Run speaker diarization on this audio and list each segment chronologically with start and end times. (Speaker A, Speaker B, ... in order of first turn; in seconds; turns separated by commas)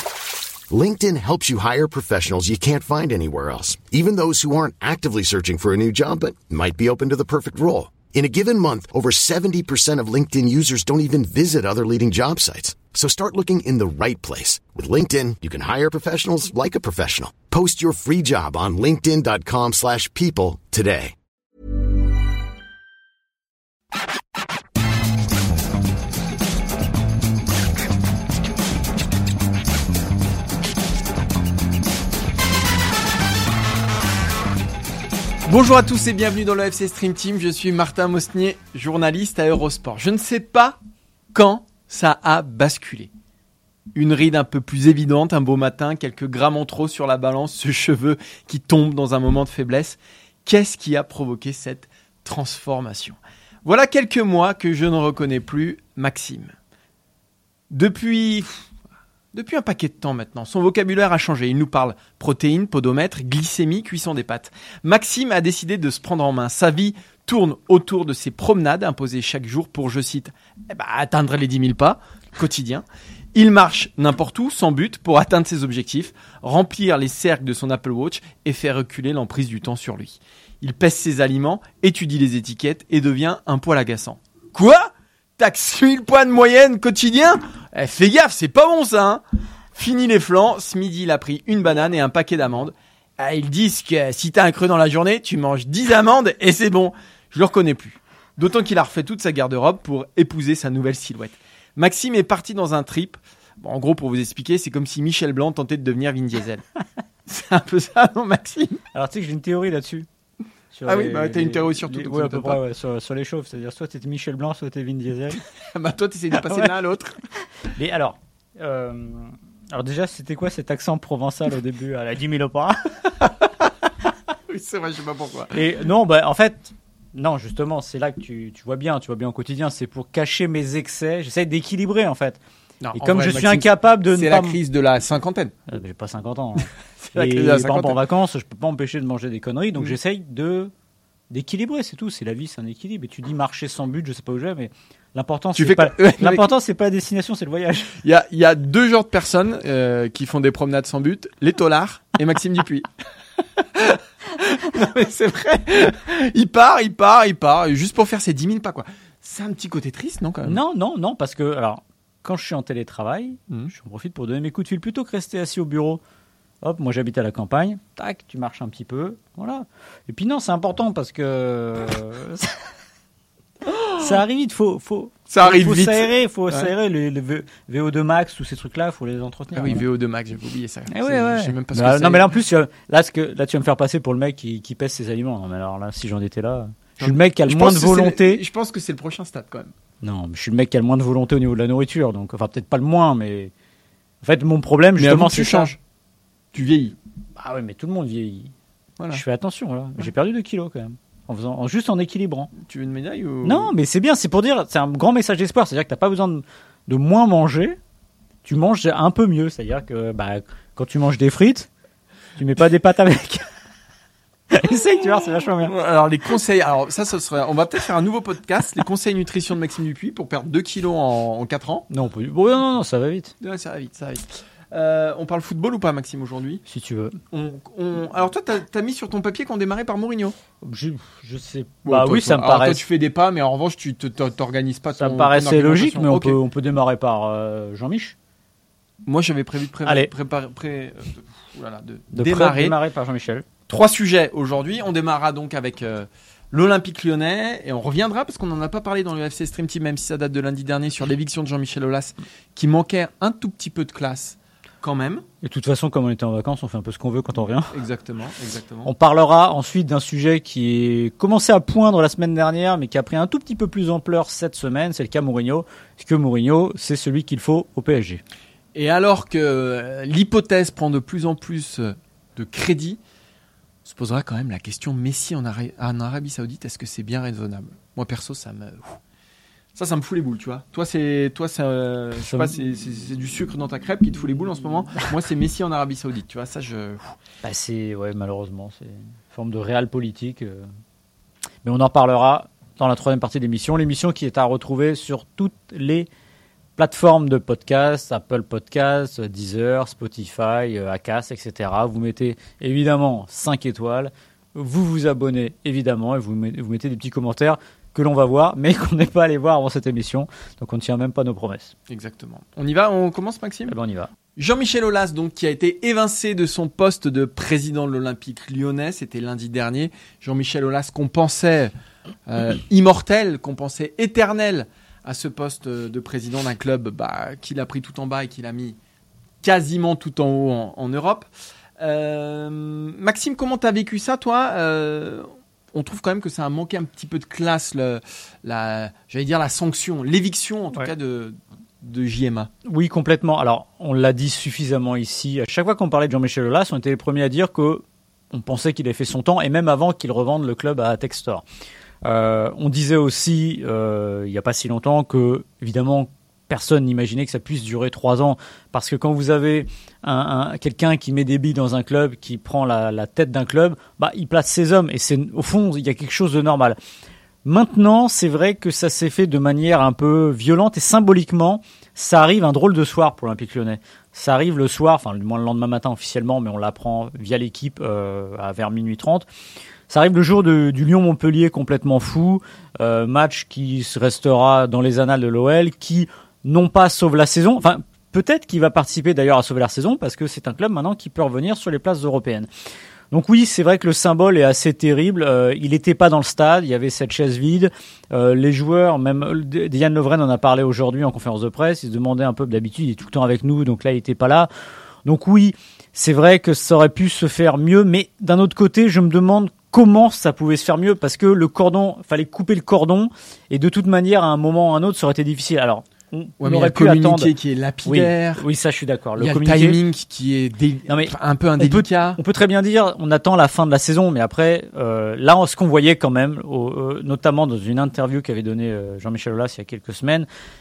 Speaker A: 0.7-21.1, Speaker B: 35.5-40.8, Speaker B: 41.3-43.1, Speaker B: 44.0-56.5, Speaker B: 57.7-58.7, Speaker B: 59.3-89.2, Speaker B: 89.8-106.6, Speaker B: 107.3-108.8, Speaker C: 108.9-110.1, Speaker C: 110.7-115.4, Speaker B: 110.9-112.6, Speaker B: 115.4-117.2, Speaker C: 116.4-116.7, Speaker C: 117.7-123.0, Speaker B: 123.2-123.7, Speaker B: 124.5-125.5, Speaker C: 125.5-132.4, Speaker B: 132.8-135.6, Speaker C: 132.9-134.6, Speaker C: 135.7-140.7, Speaker B: 137.0-138.0, Speaker C: 141.3-148.0, Speaker B: 145.6-146.5, Speaker B: 148.0-152.9, Speaker B: 153.6-160.6, Speaker C: 160.4-166.0, Speaker C: 166.6-172.7, Speaker B: 173.6-174.2, Speaker C: 173.9-179.8, Speaker B: 175.3-176.7, Speaker B: 179.5-182.3, Speaker C: 180.9-188.4, Speaker B: 187.0-189.7, Speaker C: 190.0-193.5, Speaker C: 194.2-195.7, Speaker B: 195.0-195.8, Speaker B: 196.5-197.0, Speaker C: 197.4-198.5, Speaker C: 199.1-202.5, Speaker B: 202.5-203.7, Speaker C: 203.4-207.8, Speaker C: 208.4-211.7, Speaker C: 212.4-213.5, Speaker C: 214.5-215.7, Speaker B: 215.6-221.9, Speaker C: 221.9-223.3, Speaker B: 223.4-226.6, Speaker C: 226.7-227.2, Speaker B: 227.3-230.4, Speaker C: 230.6-232.8, Speaker B: 231.8-236.4, Speaker C: 235.0-238.2, Speaker B: 239.1-242.8, Speaker C: 242.1-243.5, Speaker B: 243.7-255.2, Speaker C: 255.4-257.8, Speaker B: 257.7-258.9, Speaker C: 258.9-268.2, Speaker B: 268.7-273.0, Speaker B: 273.9-279.0, Speaker B: 279.8-287.2, Speaker C: 282.3-282.5, Speaker C: 287.4-290.7, Speaker C: 291.6-296.1, Speaker C: 296.8-311.7, Speaker B: 311.9-313.8, Speaker C: 313.7-314.1, Speaker B: 314.4-321.7, Speaker B: 322.3-328.8, Speaker B: 329.4-342.5, Speaker C: 342.6-351.5, Speaker C: 352.1-366.8, Speaker C: 367.4-379.3, Speaker C: 379.9-392.5, Speaker C: 393.1-404.5, Speaker C: 405.1-417.3, Speaker B: 416.4-418.4, Speaker C: 417.9-419.8, Speaker B: 419.2-422.2, Speaker C: 420.9-430.3